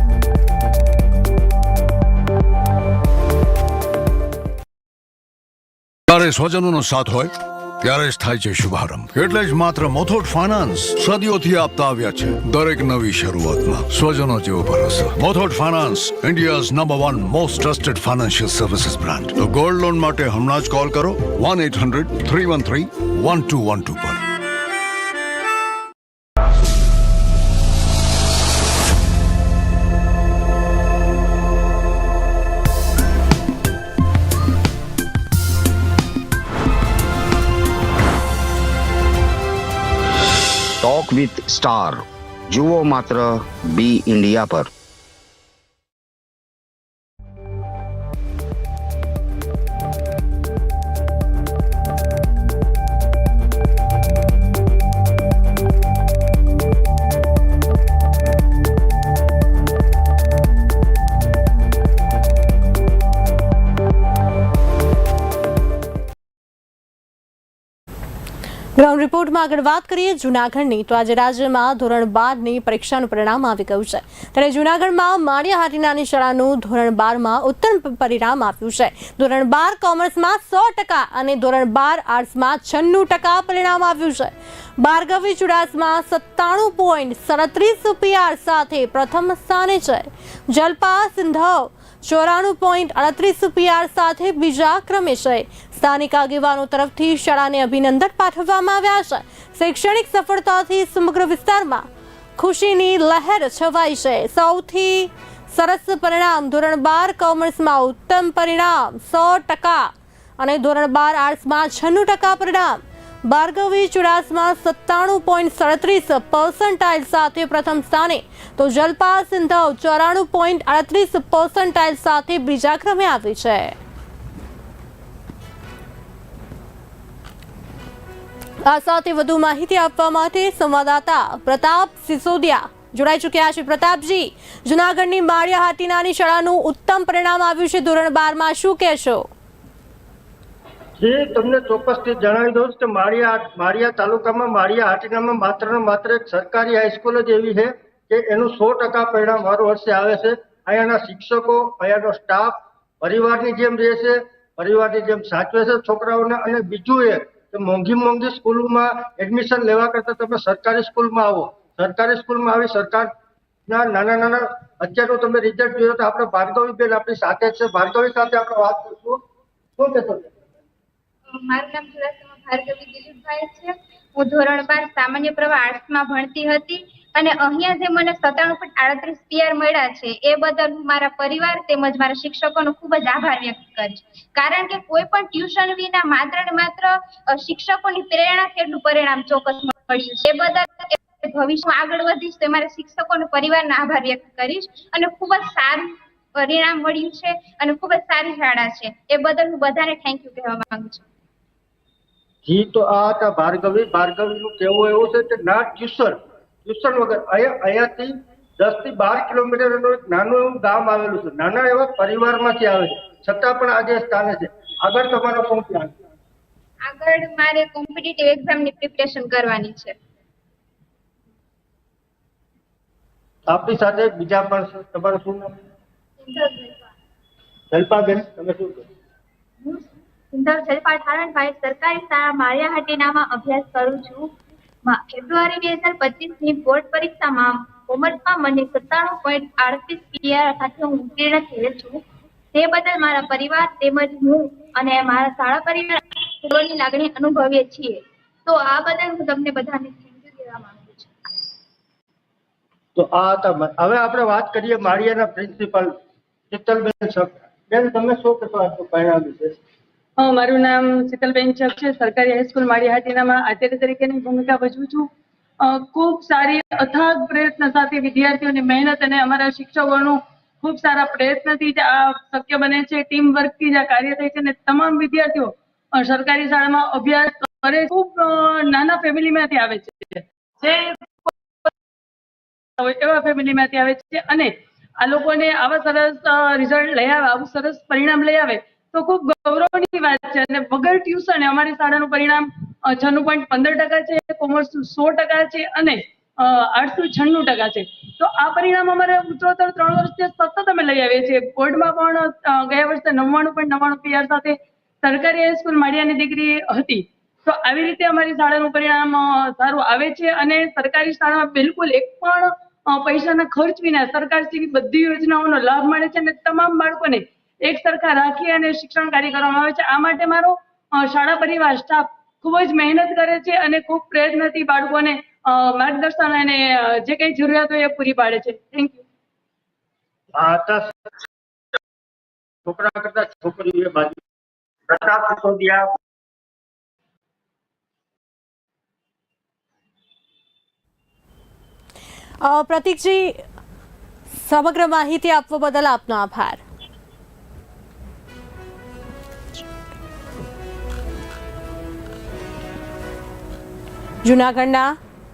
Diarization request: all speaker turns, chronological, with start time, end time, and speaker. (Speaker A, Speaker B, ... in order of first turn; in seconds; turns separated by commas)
Speaker A: 6.1-24.2, Speaker B: 40.8-44.7, Speaker C: 68.8-101.9, Speaker C: 102.4-123.8, Speaker C: 128.7-139.3, Speaker D: 141.0-163.1, Speaker D: 163.7-169.2, Speaker D: 169.8-170.4, Speaker E: 171.3-201.0, Speaker D: 202.4-216.0, Speaker E: 216.8-219.9, Speaker D: 223.5-225.6, Speaker E: 226.2-226.8, Speaker D: 227.7-228.8, Speaker E: 229.6-234.3, Speaker E: 234.9-242.0, Speaker E: 242.5-251.1, Speaker D: 253.0-255.9, Speaker D: 256.5-259.6, Speaker F: 260.2-265.1, Speaker F: 265.6-281.7, Speaker F: 282.8-329.0, Speaker D: 330.4-331.0, Speaker D: 332.7-334.2, Speaker D: 334.9-335.9, Speaker C: 342.4-343.4, Speaker C: 344.4-346.6, Speaker C: 354.2-355.0